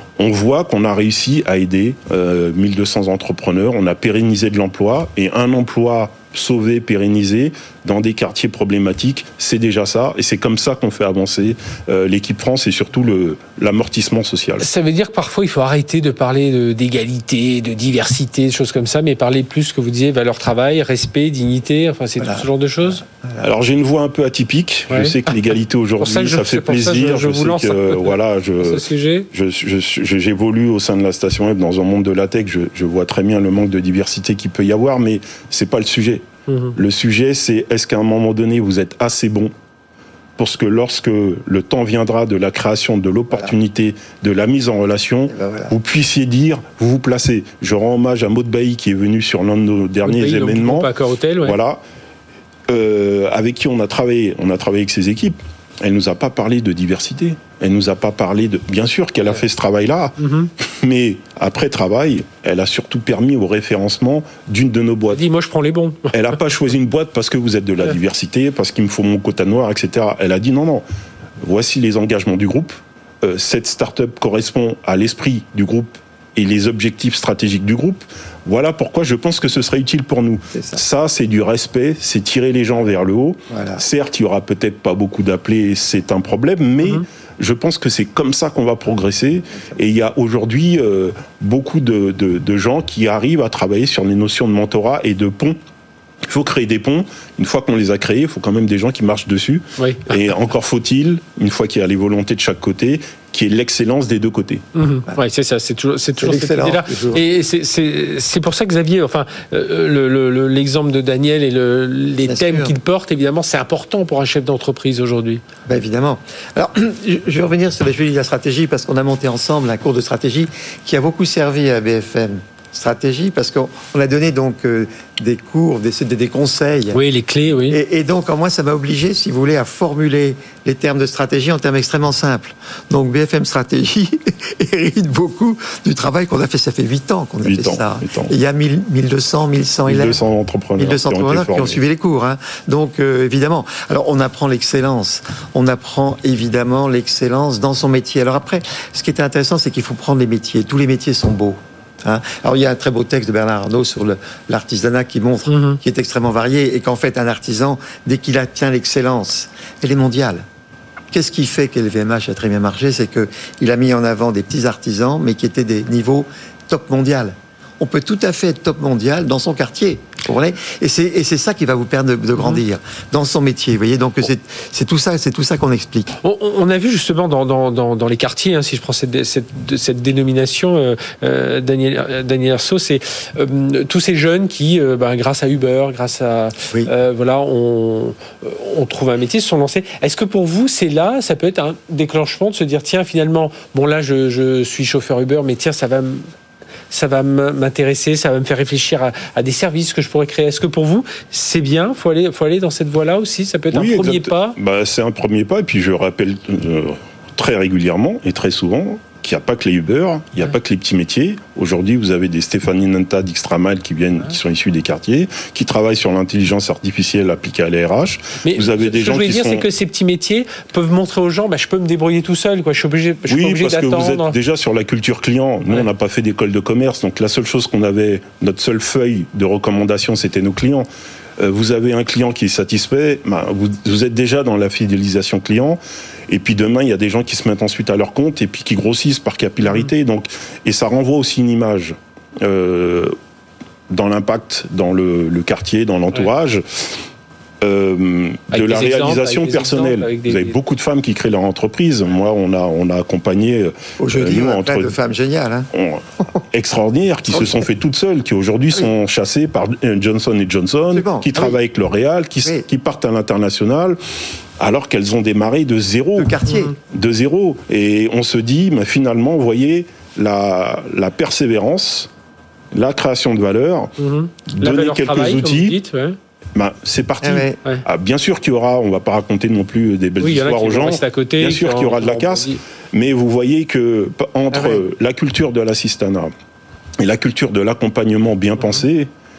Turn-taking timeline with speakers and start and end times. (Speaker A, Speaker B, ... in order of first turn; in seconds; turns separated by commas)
Speaker A: 0.2-14.7, Speaker B: 14.6-23.0, Speaker C: 22.2-22.5, Speaker C: 23.0-23.5, Speaker A: 23.4-36.2, Speaker B: 24.9-25.2, Speaker B: 26.0-29.3, Speaker B: 36.5-36.8, Speaker A: 36.8-39.5, Speaker A: 40.4-50.9, Speaker C: 45.3-45.8, Speaker B: 50.1-51.6, Speaker A: 51.4-51.8, Speaker A: 52.7-65.2, Speaker B: 60.2-60.5, Speaker B: 65.1-66.2, Speaker A: 66.1-70.8, Speaker A: 71.4-95.6, Speaker C: 80.5-80.8, Speaker C: 83.5-83.8, Speaker A: 96.3-104.6, Speaker B: 99.8-100.1, Speaker B: 104.8-115.4, Speaker C: 106.2-107.2, Speaker C: 112.2-112.7, Speaker C: 115.7-127.0, Speaker B: 126.9-127.8, Speaker C: 127.7-140.2, Speaker A: 137.4-138.3, Speaker A: 139.9-141.8, Speaker C: 140.8-160.4, Speaker B: 155.5-155.8, Speaker C: 161.1-176.2, Speaker B: 176.2-196.3, Speaker B: 196.9-204.6, Speaker A: 203.7-219.6, Speaker B: 218.4-224.3, Speaker A: 223.3-230.9, Speaker A: 231.4-243.1, Speaker A: 243.9-247.0, Speaker A: 247.6-254.9, Speaker B: 248.5-250.6, Speaker C: 254.0-255.7, Speaker A: 255.7-264.0, Speaker C: 260.9-261.6, Speaker A: 264.6-272.1, Speaker C: 266.2-266.8, Speaker A: 272.7-273.9, Speaker B: 274.0-276.1, Speaker A: 274.5-275.8, Speaker A: 276.6-286.3, Speaker C: 277.2-277.6, Speaker B: 280.2-282.6, Speaker C: 284.5-284.8, Speaker A: 287.0-289.1